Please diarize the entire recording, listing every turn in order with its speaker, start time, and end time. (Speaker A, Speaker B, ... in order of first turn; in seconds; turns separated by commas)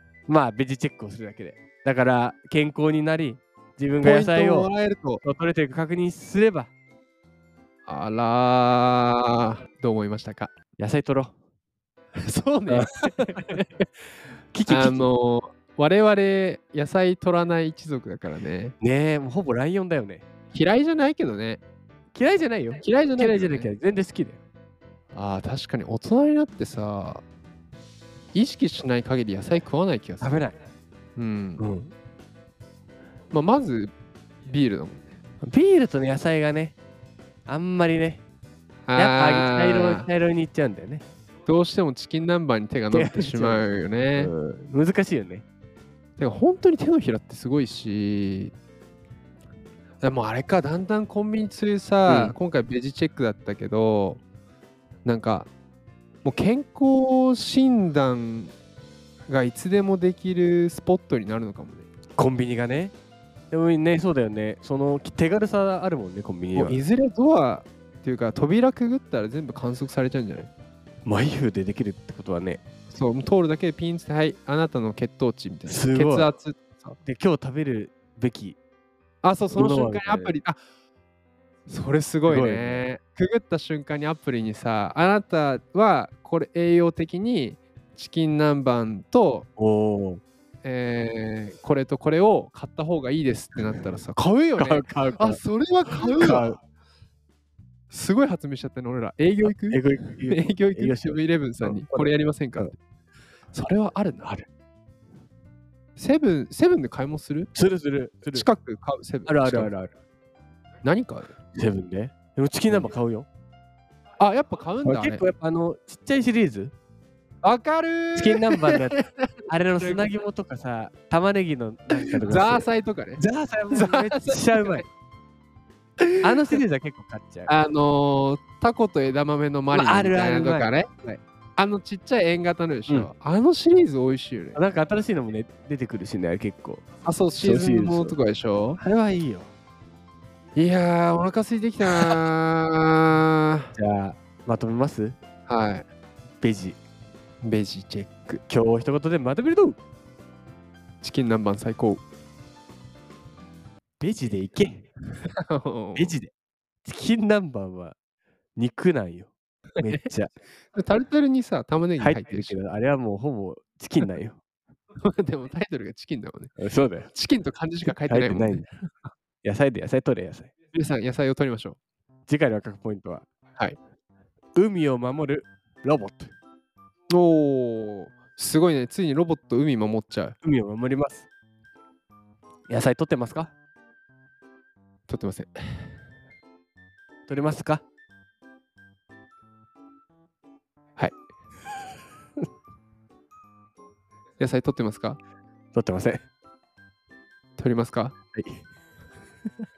Speaker A: 0.3-4.7, Speaker B: 4.0-5.2, Speaker A: 5.2-6.7, Speaker B: 7.8-10.5, Speaker A: 10.8-11.3, Speaker B: 12.2-13.7, Speaker A: 12.7-13.6, Speaker A: 14.5-15.1, Speaker B: 14.7-18.7, Speaker A: 18.8-20.2, Speaker B: 20.5-21.6, Speaker A: 22.1-24.4, Speaker B: 22.8-23.7, Speaker B: 25.1-27.2, Speaker B: 28.3-30.4, Speaker A: 30.2-30.6, Speaker B: 31.1-31.6, Speaker A: 31.6-31.9, Speaker B: 33.3-33.9, Speaker B: 34.5-35.1, Speaker A: 35.4-36.8, Speaker A: 37.5-38.2, Speaker B: 38.9-40.1, Speaker A: 38.9-41.0, Speaker B: 41.5-44.3, Speaker A: 42.9-45.5, Speaker B: 46.2-48.5, Speaker B: 50.0-54.2, Speaker A: 52.0-52.4, Speaker B: 55.0-55.5, Speaker B: 56.2-58.5, Speaker B: 59.3-61.9, Speaker A: 62.1-62.9, Speaker A: 63.5-66.8, Speaker B: 66.5-70.5, Speaker A: 71.0-72.6, Speaker B: 72.9-77.0, Speaker A: 75.7-76.3, Speaker A: 77.0-78.6, Speaker B: 79.2-80.6, Speaker A: 79.5-80.3, Speaker B: 81.7-89.5, Speaker A: 82.3-82.9, Speaker A: 89.6-90.2, Speaker B: 90.6-96.5, Speaker A: 93.7-95.4, Speaker A: 96.0-96.6, Speaker B: 97.9-102.7, Speaker A: 99.5-102.7, Speaker B: 103.5-104.4, Speaker B: 106.0-107.5, Speaker A: 107.5-108.5, Speaker B: 108.3-109.7, Speaker A: 109.2-109.9, Speaker B: 110.8-111.3, Speaker A: 111.5-113.3, Speaker B: 114.2-115.2, Speaker A: 114.8-116.7, Speaker B: 117.4-120.0, Speaker A: 118.2-124.8, Speaker B: 121.9-124.8, Speaker B: 126.0-126.6, Speaker A: 126.2-127.5, Speaker B: 127.5-130.9, Speaker A: 129.7-131.2, Speaker B: 131.6-134.6, Speaker A: 134.5-136.8, Speaker B: 137.0-138.8, Speaker A: 137.4-138.2, Speaker A: 138.8-139.5, Speaker B: 140.6-143.7, Speaker A: 141.8-142.2, Speaker A: 143.7-145.2, Speaker B: 145.5-145.9, Speaker A: 146.4-146.8, Speaker B: 147.4-148.4, Speaker A: 148.5-149.8, Speaker B: 151.0-152.0, Speaker A: 154.0-154.9, Speaker B: 155.2-156.2, Speaker A: 155.9-156.3, Speaker A: 156.8-157.9, Speaker A: 158.6-160.3, Speaker B: 160.7-162.6, Speaker A: 162.0-164.4, Speaker B: 165.0-166.6, Speaker A: 166.6-167.1, Speaker B: 167.1-168.7, Speaker A: 167.8-168.7, Speaker A: 169.4-170.5, Speaker B: 170.7-171.8, Speaker A: 172.3-173.2, Speaker A: 174.5-176.3, Speaker B: 177.1-180.3, Speaker A: 180.4-181.3, Speaker A: 182.7-183.5, Speaker B: 185.1-185.9, Speaker A: 187.3-187.8, Speaker B: 194.4-195.2, Speaker A: 195.7-196.2, Speaker B: 197.6-198.1, Speaker A: 198.3-198.6